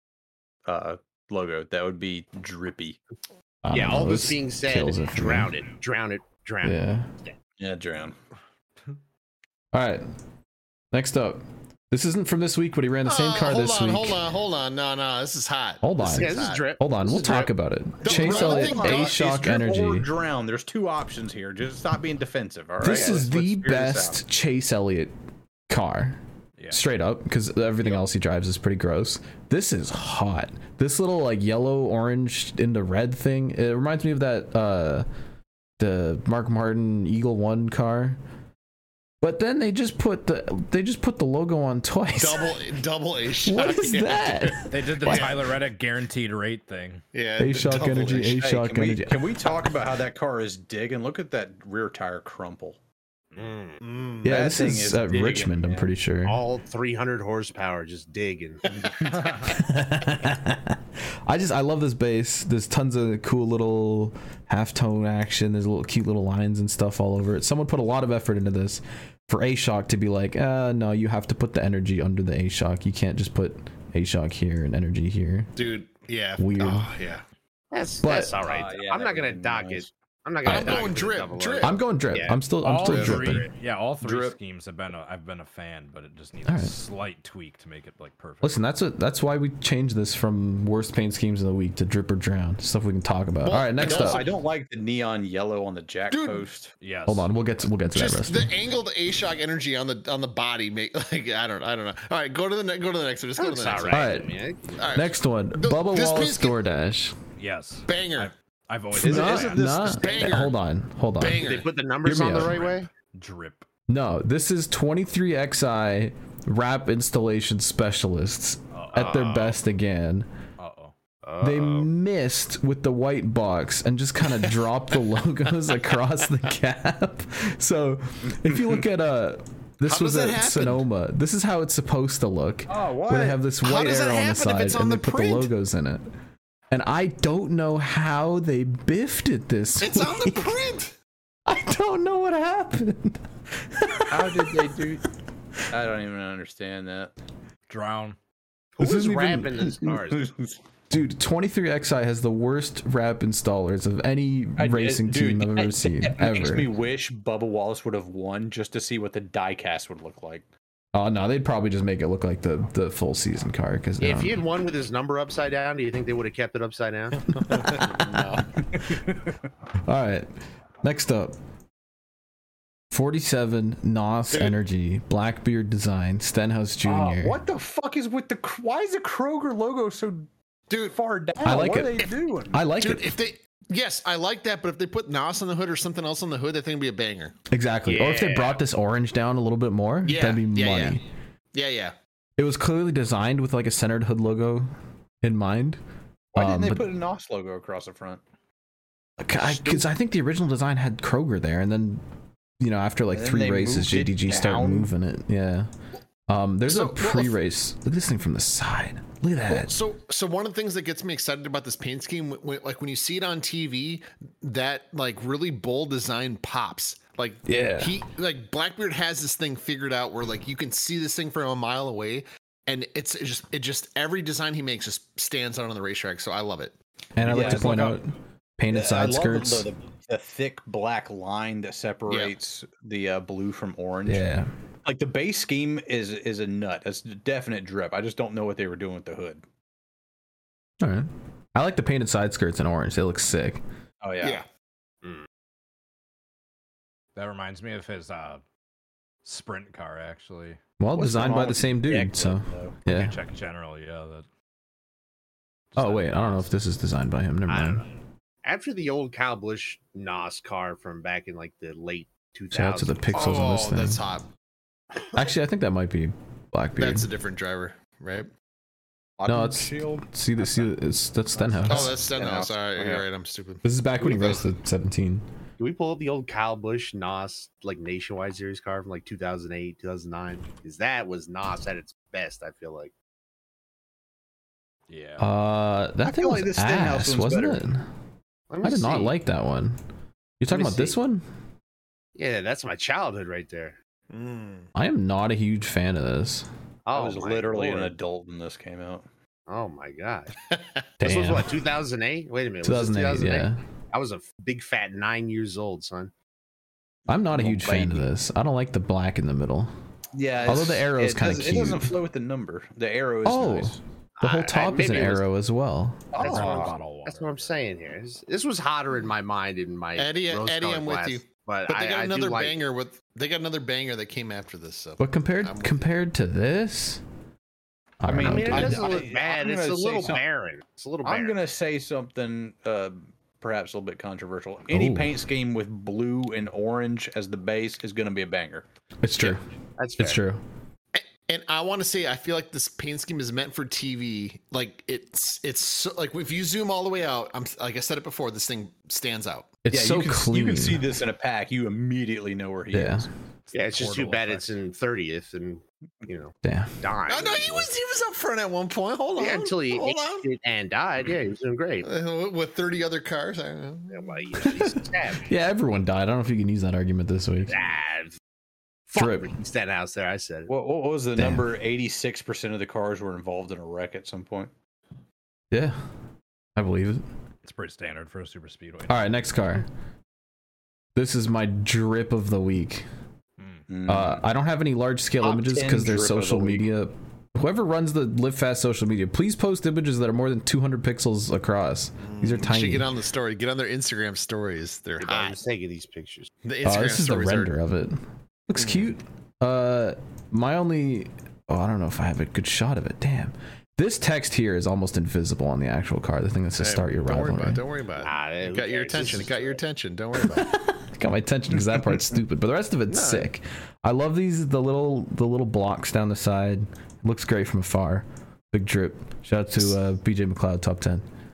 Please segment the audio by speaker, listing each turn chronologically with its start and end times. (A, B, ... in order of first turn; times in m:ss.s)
0:00.7-0:03.0 A
0:03.6-0:05.5 B
0:03.7-0:06.8 C
0:06.6-0:07.1 B
0:07.6-0:08.2 A
0:09.7-0:10.0 B
0:10.9-0:14.2 B
0:13.0-0:16.6 D
0:15.8-0:20.1 B
0:16.0-0:17.5 C
0:18.0-0:19.2 D
0:18.0-0:24.2 A
0:22.8-0:25.1 B
0:25.7-0:26.2 B
0:26.6-0:26.8 E
0:26.7-0:35.0 B
0:35.8-0:38.2 B
0:39.2-0:42.5 B
0:42.2-0:45.5 D
0:43.4-0:45.4 B
0:44.7-0:47.0 E
0:47.1-0:48.3 D
0:47.4-0:49.4 B
0:47.8-0:52.8 A
0:53.4-0:53.8 C
0:53.8-0:54.3 D
0:54.2-0:56.4 B
0:54.2-0:55.9 A
0:56.2-0:59.0 C
0:59.4-1:15.5 B
1:15.6-1:17.2 D
1:16.4-1:16.9 B
1:17.7-1:22.4 C
1:18.0-1:18.4 B
1:18.4-1:19.9 A
1:20.4-1:20.8 B
1:20.4-1:21.8 D
1:21.6-1:23.5 B
1:22.6-1:28.6 E
1:22.8-1:23.3 D
1:24.0-1:24.4 A
1:26.4-1:26.7 B
1:28.4-1:34.3 B
1:33.4-1:34.3 D
1:33.8-1:36.7 A
1:36.1-1:36.4 D
1:36.8-1:37.3 E
1:37.1-1:38.5 B
1:37.9-1:44.1 D
1:43.4-1:44.8 C
1:43.9-1:44.3 B
1:44.8-1:46.6 D
1:44.9-1:47.2 B
1:47.4-1:49.8 E
1:47.9-1:48.3 D
1:49.0-1:51.4 B
1:49.0-1:50.0 A
1:49.1-1:50.5 D
1:51.2-1:51.7 D
1:51.4-1:52.9 C
1:52.0-1:52.6 B
1:52.3-1:53.6 E
1:53.9-2:00.3 B
1:58.7-1:59.5 E
1:59.2-1:59.4 C
2:00.6-2:00.9 E
2:01.2-2:01.9 C
2:01.4-2:16.1 B
2:08.4-2:08.7 A
2:09.8-2:10.8 D
2:12.7-2:13.4 A
2:13.6-2:15.5 D
2:16.7-2:20.6 B
2:19.8-2:20.9 D
2:21.5-2:24.8 B
2:24.1-2:25.0 A
2:25.7-2:27.1 A
2:27.7-2:28.2 E
2:28.8-2:30.3 C
2:28.8-2:29.8 B
2:29.9-2:30.5 A
2:30.9-2:36.7 B
2:34.6-2:40.5 A
2:40.9-2:44.4 B
2:44.0-2:47.6 C
2:47.5-2:49.3 A
2:49.9-2:50.3 B
2:50.8-2:51.4 B
2:52.9-2:57.4 B
2:56.8-3:00.3 A
3:00.7-3:01.0 D
3:00.8-3:02.6 A
3:01.4-3:03.1 B
3:02.8-3:07.4 D
3:07.5-3:11.0 B
3:07.8-3:08.6 C
3:10.0-3:11.0 D
3:11.5-3:11.9 D
3:12.4-3:14.7 B
3:15.2-3:15.8 B
3:16.3-3:18.2 A
3:16.3-3:16.9 B
3:19.2-3:22.0 B
3:19.4-3:19.8 A
3:22.6-3:25.7 B
3:23.1-3:24.9 A
3:26.3-3:29.7 B
3:26.7-3:27.4 D
3:29.4-3:46.8 D
3:37.4-3:37.9 B
3:47.2-3:49.7 B
3:47.2-3:48.0 A
3:47.4-3:48.0 E
3:48.7-3:54.3 A
3:52.1-3:52.3 D
3:54.0-3:54.5 B
3:54.8-3:59.4 A
4:00.8-4:03.6 B
4:04.0-4:04.4 A
4:07.1-4:08.4 E
4:09.2-4:10.6 E
4:10.8-4:13.1 B
4:10.9-4:12.8 A
4:12.8-4:14.2 E
4:15.7-4:16.5 E
4:15.8-4:17.9 B
4:17.5-4:17.8 C
4:18.4-4:23.4 C
4:22.5-4:24.0 B
4:23.1-4:24.3 D
4:25.1-4:27.1 B
4:26.8-4:28.3 D
4:29.2-4:30.6 A
4:29.2-4:32.0 B
4:31.6-4:33.1 A
4:31.7-4:34.4 D
4:33.6-4:35.2 B
4:35.6-4:42.9 C
4:44.9-4:45.3 E
4:45.2-4:47.9 B
4:46.0-4:47.6 A
4:48.5-4:49.2 C
4:48.6-4:49.8 B
4:50.4-4:51.2 B
4:50.5-4:51.0 C
4:52.2-4:53.8 C
4:54.1-4:54.7 D
4:54.7-4:56.5 B
4:56.8-4:58.0 C
4:56.9-4:59.0 A
4:59.5-5:00.3 C
5:01.0-5:01.5 B
5:01.0-5:06.1 C
5:02.6-5:03.6 B
5:07.1-5:09.7 B
5:07.2-5:08.1 A
5:10.1-5:13.8 A
5:10.4-5:12.0 B
5:13.2-5:16.1 B
5:14.2-5:15.3 C
5:16.1-5:16.7 A
5:16.2-5:22.6 C
5:16.2-5:17.6 E
5:20.0-5:25.9 D
5:25.0-5:27.0 B
5:28.0-5:28.9 B
5:28.0-5:30.2 A
5:28.2-5:31.4 C
5:31.0-5:38.6 A
5:34.7-5:35.1 B
5:39.0-5:39.4 B
5:39.8-5:40.2 C
5:40.0-5:40.4 B
5:40.9-5:49.5 D
5:49.6-5:50.9 B
5:49.7-5:53.1 A
5:52.7-5:53.1 B
5:53.5-5:54.6 E
5:53.5-5:57.7 C
5:56.4-5:56.8 B
5:57.1-6:00.2 D
5:59.2-6:01.9 C
6:01.8-6:04.5 D
6:03.9-6:05.3 C
6:05.2-6:07.6 B
6:07.5-6:08.2 C
6:08.9-6:10.5 C
6:08.9-6:09.3 B
6:10.5-6:14.5 A
6:11.2-6:11.4 B
6:15.5-6:15.8 B
6:16.6-6:17.0 B
6:17.4-6:19.1 E
6:18.9-6:19.6 B
6:20.9-6:22.8 B
6:23.4-6:23.6 E
6:23.7-6:24.2 A
6:23.9-6:32.9 B
6:25.2-6:26.6 A
6:32.0-6:35.4 D
6:35.0-6:36.3 C
6:36.4-6:37.6 D
6:36.6-6:47.6 B
6:38.6-6:38.9 D
6:46.6-6:50.5 D
6:48.0-6:49.6 C
6:50.2-7:01.0 B
6:51.6-6:52.0 A
6:52.9-6:53.2 D